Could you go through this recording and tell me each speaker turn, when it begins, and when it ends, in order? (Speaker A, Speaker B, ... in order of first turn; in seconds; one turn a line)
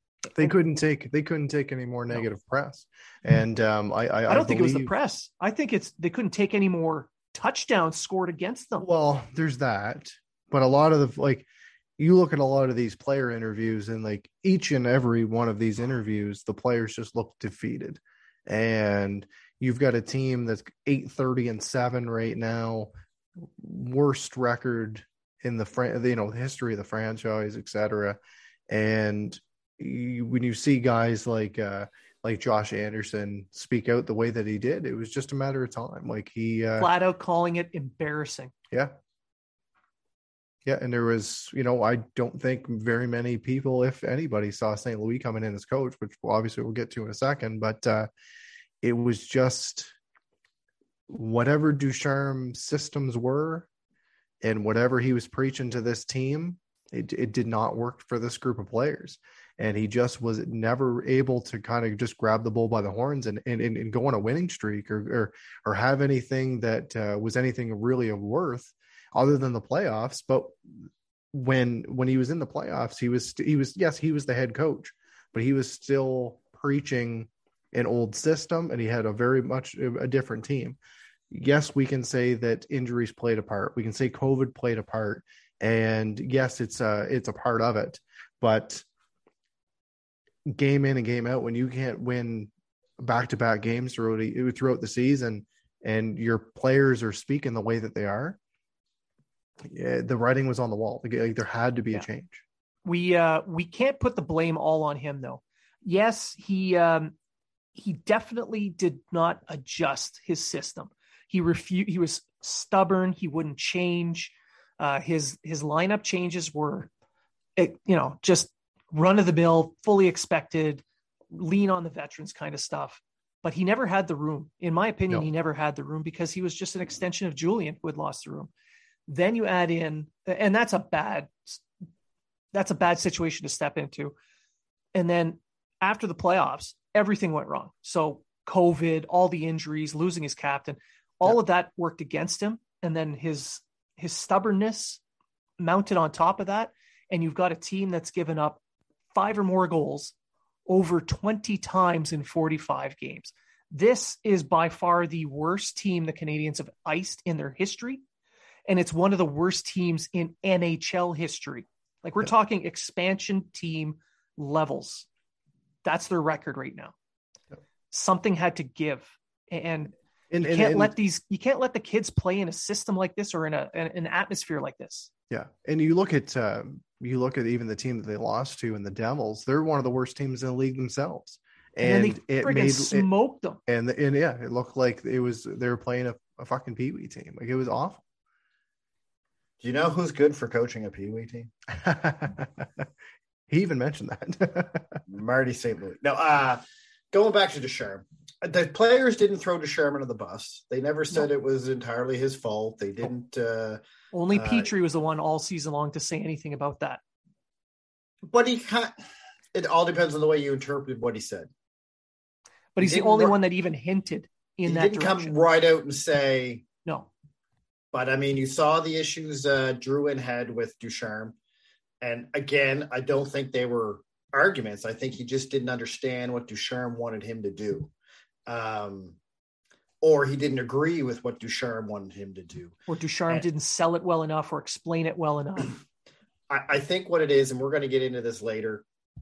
Speaker A: 0.3-4.9
Speaker B: 4.3-8.9
Speaker A: 8.8-11.5
Speaker A: 12.0-28.2
Speaker A: 28.7-36.9
Speaker B: 36.8-38.5
Speaker A: 40.6-48.1
Speaker A: 48.8-49.9
Speaker A: 51.1-53.7
Speaker A: 54.4-80.8
Speaker A: 81.3-88.8
Speaker A: 90.5-98.4
Speaker A: 99.6-102.4
Speaker B: 102.8-107.1
Speaker B: 107.7-116.9
Speaker B: 117.6-128.5
Speaker B: 129.1-131.6
Speaker B: 132.5-134.1
Speaker B: 134.9-145.0
Speaker B: 145.6-148.6
Speaker B: 149.1-150.1
Speaker B: 150.7-158.0
Speaker B: 158.7-165.1
Speaker B: 165.8-166.9
Speaker B: 167.9-169.9
Speaker A: 170.3-170.9
Speaker B: 170.4-175.1
Speaker A: 175.3-183.1
Speaker B: 181.8-183.6
Speaker A: 183.7-188.0
Speaker C: 189.6-191.5
Speaker A: 191.7-192.8
Speaker A: 193.5-195.0
Speaker C: 195.1-204.7
Speaker B: 204.1-207.0
Speaker C: 208.3-208.9
Speaker C: 209.5-211.5
Speaker B: 212.8-215.3
Speaker C: 212.8-213.4
Speaker C: 214.7-216.6
Speaker C: 217.9-221.3
Speaker C: 222.0-227.9
Speaker C: 228.5-229.2
Speaker C: 230.0-232.8
Speaker B: 232.9-235.8
Speaker C: 236.5-238.8